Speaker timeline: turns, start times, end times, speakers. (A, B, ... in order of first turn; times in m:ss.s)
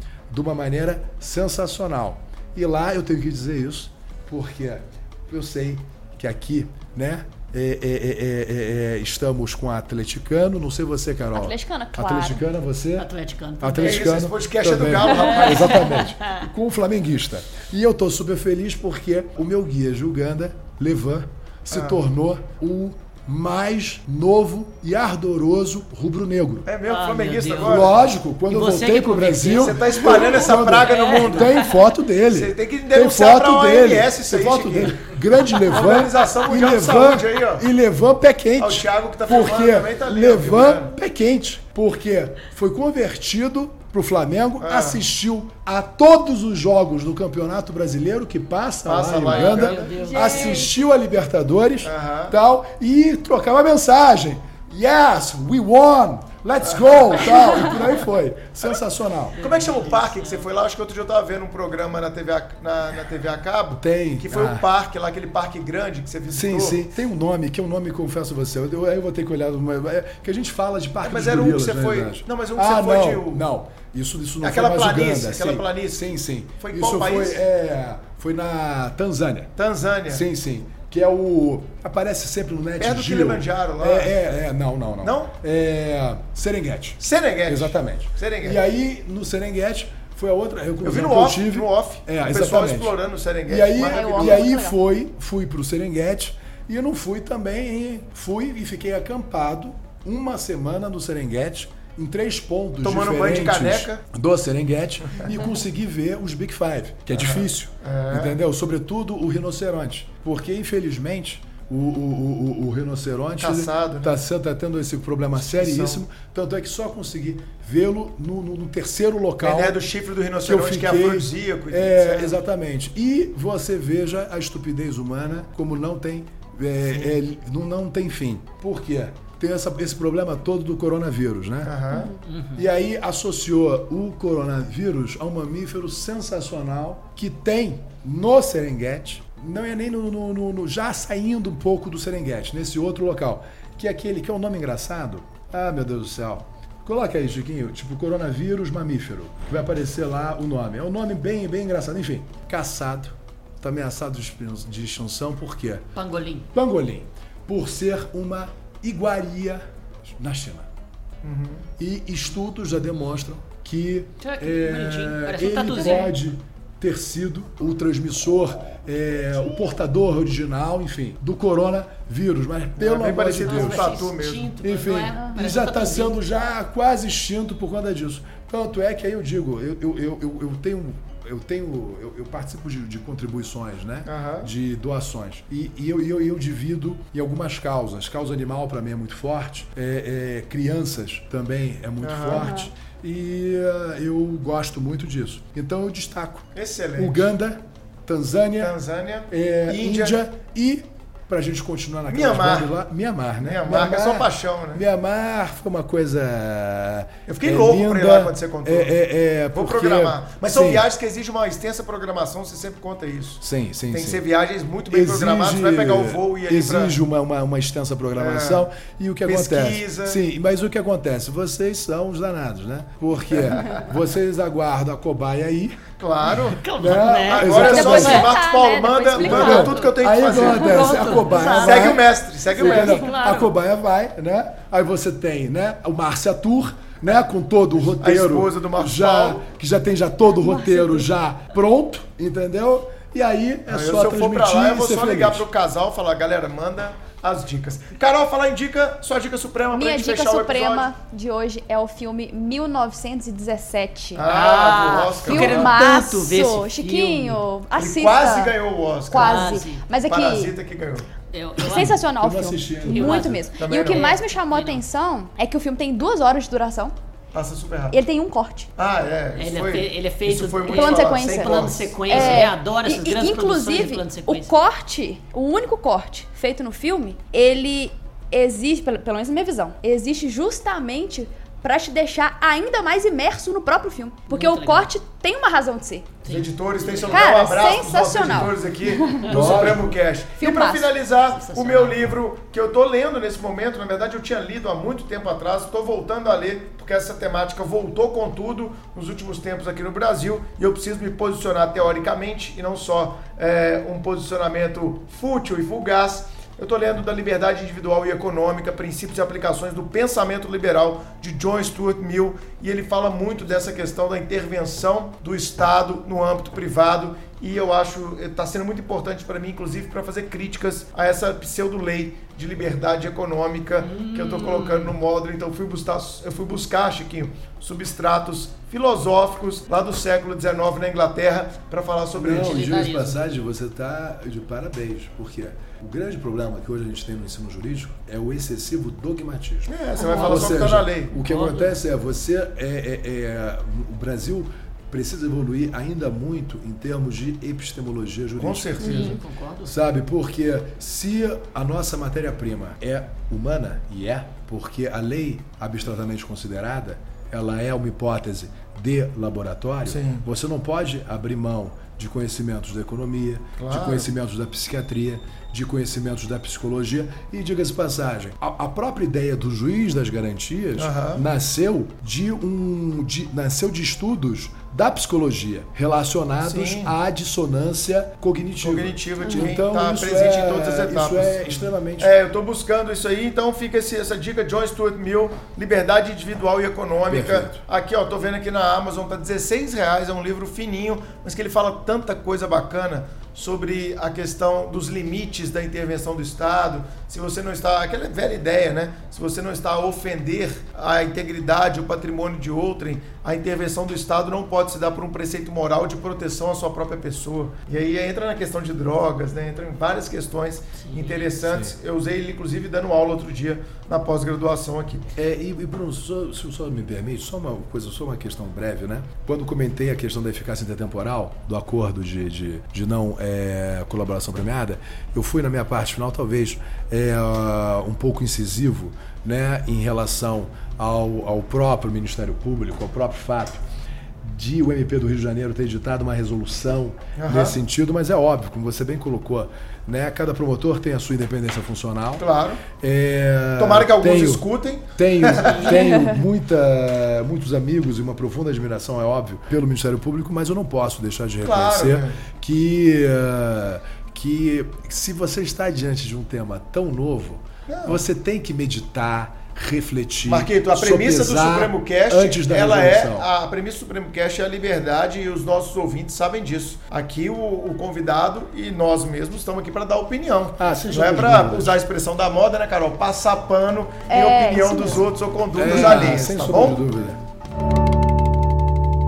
0:00.3-0:13.1 A
0:11.3-0:12.4 B
0:13.0-0:14.1 C
0:13.6-0:26.7 A
0:13.8-0:16.1 D
0:15.4-0:16.4 C
0:21.7-0:22.0 D
0:26.6-0:28.0 D
0:26.8-0:27.9 C
0:27.6-0:59.4 A
0:28.5-0:31.7 C
0:29.5-0:31.6 D
0:32.3-0:35.0 D
0:35.6-0:37.7 D
0:38.6-0:40.9 D
0:44.6-0:45.0 D
0:48.8-0:49.9 D
0:49.2-0:50.7 C
0:50.0-0:50.7 B
0:51.8-0:52.4 D
0:59.4-1:00.5 C
0:59.4-1:06.8 D
1:03.8-1:04.6 A
1:06.3-1:19.5 A
1:11.0-1:13.4 D
1:14.4-1:16.1 D
1:16.6-1:17.4 D
1:19.6-1:20.2 D
1:20.1-1:33.0 A
1:22.8-1:24.1 D
1:25.0-1:25.3 D
1:27.0-1:28.6 D
1:30.8-1:34.5 D
1:33.5-1:59.8 A
1:33.8-1:34.8 B
1:42.8-1:44.0 D
1:47.1-1:48.4 D
1:53.4-1:54.2 D
1:55.4-1:56.0 D
1:59.4-2:02.4 D
2:00.4-2:12.0 A
2:06.9-2:07.2 D
2:11.6-2:12.1 D
2:12.2-2:12.6 C
2:12.6-2:35.9 A
2:36.0-2:36.5 C
2:36.5-2:40.7 A
2:41.2-2:41.6 D
2:41.8-2:54.1 A
2:44.2-2:46.2 C
2:52.8-2:54.5 D
2:53.4-2:56.2 C
2:54.6-3:18.8 A
3:04.1-3:04.5 D
3:12.0-3:12.5 D
3:12.3-3:12.7 B
3:16.6-3:17.3 D
3:18.6-3:20.2 D
3:19.3-3:30.9 A
3:22.1-3:22.7 D
3:23.4-3:24.8 D
3:27.3-3:29.0 D
3:29.5-3:37.0 D
3:33.4-3:34.2 A
3:34.9-3:45.8 A
3:38.2-3:38.7 D
3:39.2-3:40.2 D
3:43.3-3:43.8 D
3:46.0-3:46.6 D
3:46.3-3:48.2 C
3:46.8-3:48.4 A
3:47.3-3:53.1 D
3:47.5-3:51.9 B
3:49.2-4:05.5 A
3:50.7-3:52.0 C
3:52.5-3:53.5 C
3:58.0-3:59.4 D
4:00.4-4:01.0 B
4:03.7-4:10.9 D
4:09.7-4:14.3 B
4:14.2-4:15.8 D
4:14.3-4:17.4 C
4:15.3-4:18.5 B
4:17.8-4:21.1 D
4:19.1-4:20.5 B
4:19.2-4:19.8 C
4:21.3-4:22.0 C
4:21.6-4:26.9 B
4:21.6-4:23.4 A
4:22.9-4:24.8 C
4:23.6-4:24.2 D
4:27.3-4:28.0 D
4:27.9-4:28.7 B
4:28.8-4:32.5 D
4:29.4-4:34.5 C
4:30.7-4:46.1 B
4:44.3-4:44.9 C
4:46.2-4:47.4 C
4:46.2-5:32.8 D
4:47.1-4:49.3 B
4:49.2-4:49.8 C
4:49.3-4:50.0 A
4:50.4-4:50.9 B
4:51.3-4:52.1 C
5:23.8-5:25.0 C
5:32.2-6:22.1 A
5:32.3-5:33.2 C
5:39.7-5:41.1 D
5:40.0-5:40.5 C
5:41.2-5:41.8 C
5:48.4-5:49.2 D
5:48.8-5:49.7 C
5:59.9-6:00.2 D
6:03.6-6:04.1 D
6:10.8-6:11.2 D
6:16.4-6:16.9 D
6:18.6-6:55.1 D
6:19.2-6:19.5 B
6:27.1-6:27.6 A
6:50.8-6:51.3 C
6:51.4-6:51.8 A
6:55.2-7:13.6 A
7:14.2-7:43.3 A
7:17.2-7:17.6 D
7:22.2-7:22.6 D
7:23.6-7:25.7 D
7:25.4-7:25.9 C
7:31.4-7:32.2 D
7:37.7-7:38.0 D
7:40.2-7:56.8 D
7:50.6-7:51.8 A
7:54.1-7:55.1 B
7:55.6-7:57.2 A